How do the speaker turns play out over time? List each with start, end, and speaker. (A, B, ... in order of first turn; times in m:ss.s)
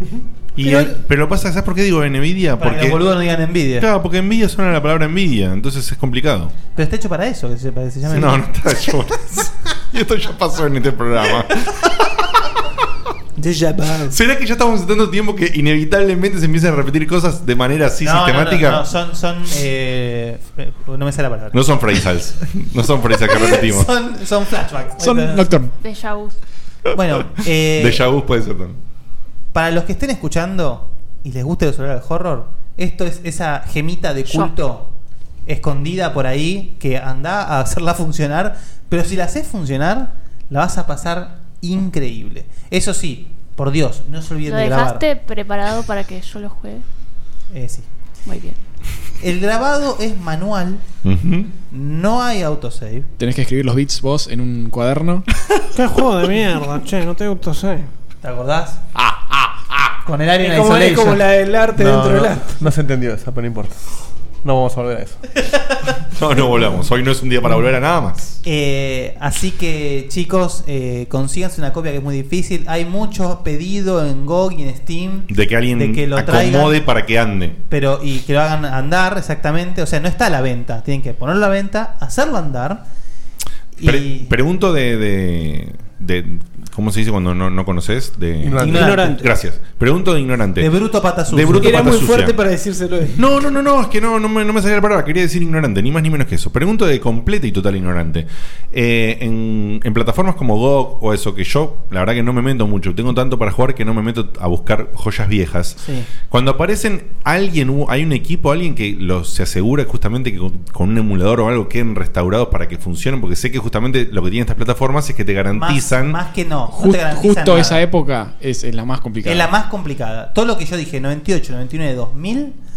0:00.6-0:03.0 A
0:00.6-0:00.9 B
0:02.6-0:03.9 B
0:03.8-0:06.6 A
0:06.7-0:08.5 B
0:08.1-0:11.9 A
0:13.4-0:14.0 C
0:14.1-0:18.8 A
0:18.0-0:21.6 B
0:21.5-0:23.9 A
0:23.3-0:25.5 B
0:25.0-0:25.7 D
0:25.8-0:26.4 E
0:26.9-0:28.0 B
0:27.8-0:28.8 A
0:29.5-0:34.9 B
0:35.5-0:45.1 B
0:44.4-0:46.8 E
0:47.5-0:47.9 B
0:48.3-0:48.6 E
0:49.2-0:50.8 B
0:51.0-0:51.5 A
0:51.7-0:53.1 B
0:53.2-0:55.2 D
0:55.7-0:57.9 C
0:58.2-0:58.8 B
0:59.0-0:59.9 A
1:00.0-1:01.2 B
1:00.4-1:02.6 C
1:01.8-1:03.8 F
1:04.4-1:05.2 F
1:06.2-1:08.4 A
1:08.4-1:16.8 B
1:15.3-1:17.6 A
1:17.7-1:22.8 B
1:23.8-1:24.3 B
1:23.8-1:30.7 A
1:28.4-1:29.0 F
1:28.6-1:29.1 B
1:28.7-1:29.3 C
1:30.6-1:32.0 B
1:31.3-1:32.4 A
1:31.6-1:33.2 C
1:33.2-1:56.2 A
1:45.8-1:46.1 B
1:55.5-1:57.8 B
1:56.7-1:59.5 D
1:59.2-2:02.6 B